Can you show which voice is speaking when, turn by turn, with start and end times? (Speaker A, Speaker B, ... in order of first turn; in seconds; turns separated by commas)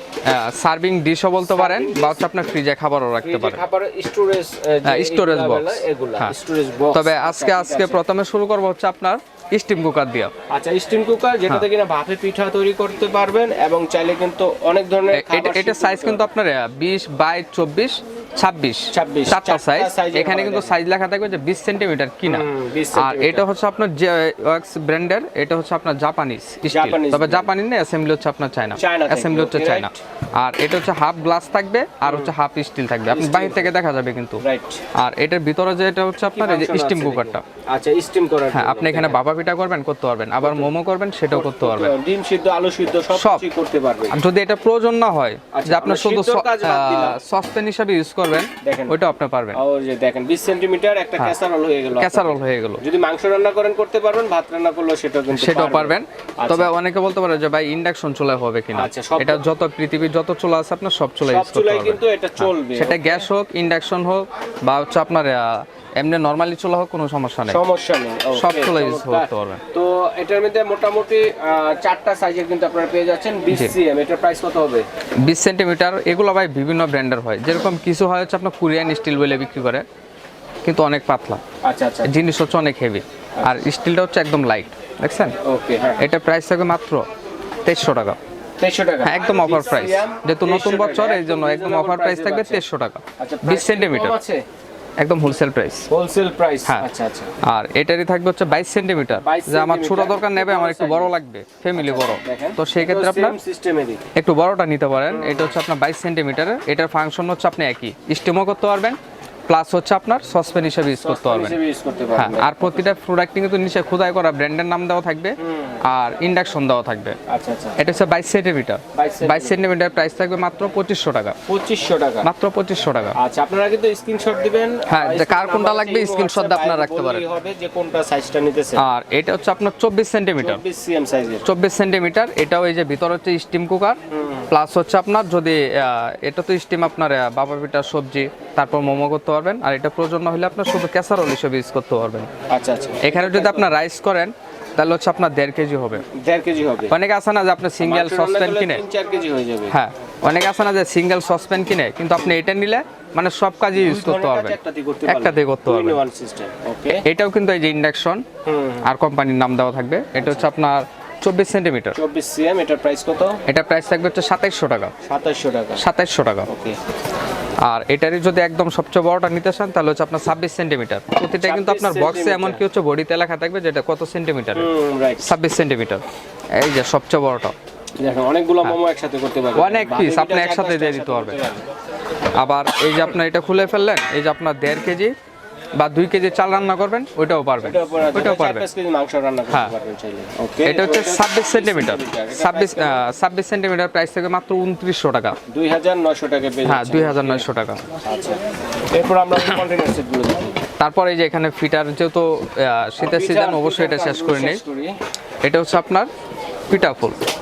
Speaker A: 0.2-3.6, Speaker B: 1.4-2.2, Speaker B: 3.2-8.0, Speaker A: 4.8-6.3, Speaker A: 6.9-10.3, Speaker B: 10.5-16.3, Speaker A: 15.1-34.4, Speaker B: 18.9-20.8, Speaker B: 22.3-23.5, Speaker B: 26.7-27.5, Speaker B: 28.8-30.0, Speaker B: 32.0-32.3, Speaker B: 33.1-33.7, Speaker B: 34.4-34.8, Speaker A: 35.0-37.4, Speaker B: 36.2-39.2, Speaker A: 38.5-41.9, Speaker B: 40.4-40.7, Speaker B: 41.3-44.2, Speaker A: 43.1-43.5, Speaker A: 44.1-49.6, Speaker B: 45.5-47.2, Speaker B: 48.6-49.0, Speaker B: 49.5-56.7, Speaker A: 52.0-52.8, Speaker A: 55.3-67.6, Speaker B: 58.7-59.4, Speaker B: 61.3-63.3, Speaker B: 67.5-74.8, Speaker A: 68.3-69.6, Speaker A: 75.2-79.9, Speaker A: 80.6-81.4, Speaker B: 81.6-82.2, Speaker A: 82.0-85.4, Speaker B: 85.4-86.1, Speaker A: 86.0-87.0, Speaker A: 87.7-88.2, Speaker B: 88.6-92.6, Speaker A: 89.0-94.2, Speaker B: 93.2-94.4, Speaker A: 95.0-95.9, Speaker B: 95.9-97.3, Speaker A: 97.4-103.4, Speaker B: 99.2-101.1, Speaker B: 101.8-104.0, Speaker A: 104.2-111.6, Speaker B: 105.1-105.5, Speaker B: 110.9-112.9, Speaker A: 112.2-117.2, Speaker B: 115.4-115.8, Speaker B: 117.3-117.8, Speaker A: 117.8-121.4, Speaker B: 118.9-119.6, Speaker B: 121.5-122.3, Speaker A: 122.2-123.2, Speaker B: 123.2-128.8, Speaker A: 124.9-127.2, Speaker A: 128.8-130.6, Speaker B: 130.4-131.5, Speaker A: 131.4-134.0, Speaker B: 134.1-134.5, Speaker A: 134.5-142.3, Speaker B: 142.5-143.7, Speaker A: 143.0-146.1, Speaker B: 146.1-146.9, Speaker A: 146.9-148.8, Speaker B: 147.8-149.8, Speaker A: 149.7-154.6, Speaker B: 153.8-157.1, Speaker A: 155.1-156.0, Speaker A: 157.0-158.2, Speaker B: 158.5-158.9, Speaker A: 158.8-162.0, Speaker B: 160.2-160.5, Speaker B: 161.9-163.4, Speaker A: 163.5-164.9, Speaker B: 165.1-165.8, Speaker A: 165.8-166.5, Speaker B: 166.5-166.8, Speaker A: 167.6-174.7, Speaker B: 171.4-172.6, Speaker B: 174.6-175.3, Speaker A: 175.2-176.0, Speaker A: 176.6-177.6, Speaker B: 178.0-181.6, Speaker A: 179.6-181.4, Speaker A: 182.3-185.2, Speaker A: 185.8-188.7, Speaker B: 187.6-193.0, Speaker A: 190.6-195.4, Speaker B: 195.5-197.5, Speaker A: 196.7-197.8, Speaker B: 198.0-198.4, Speaker B: 198.9-200.6, Speaker A: 200.8-204.6, Speaker B: 203.0-204.9, Speaker A: 205.4-206.1, Speaker A: 206.7-207.2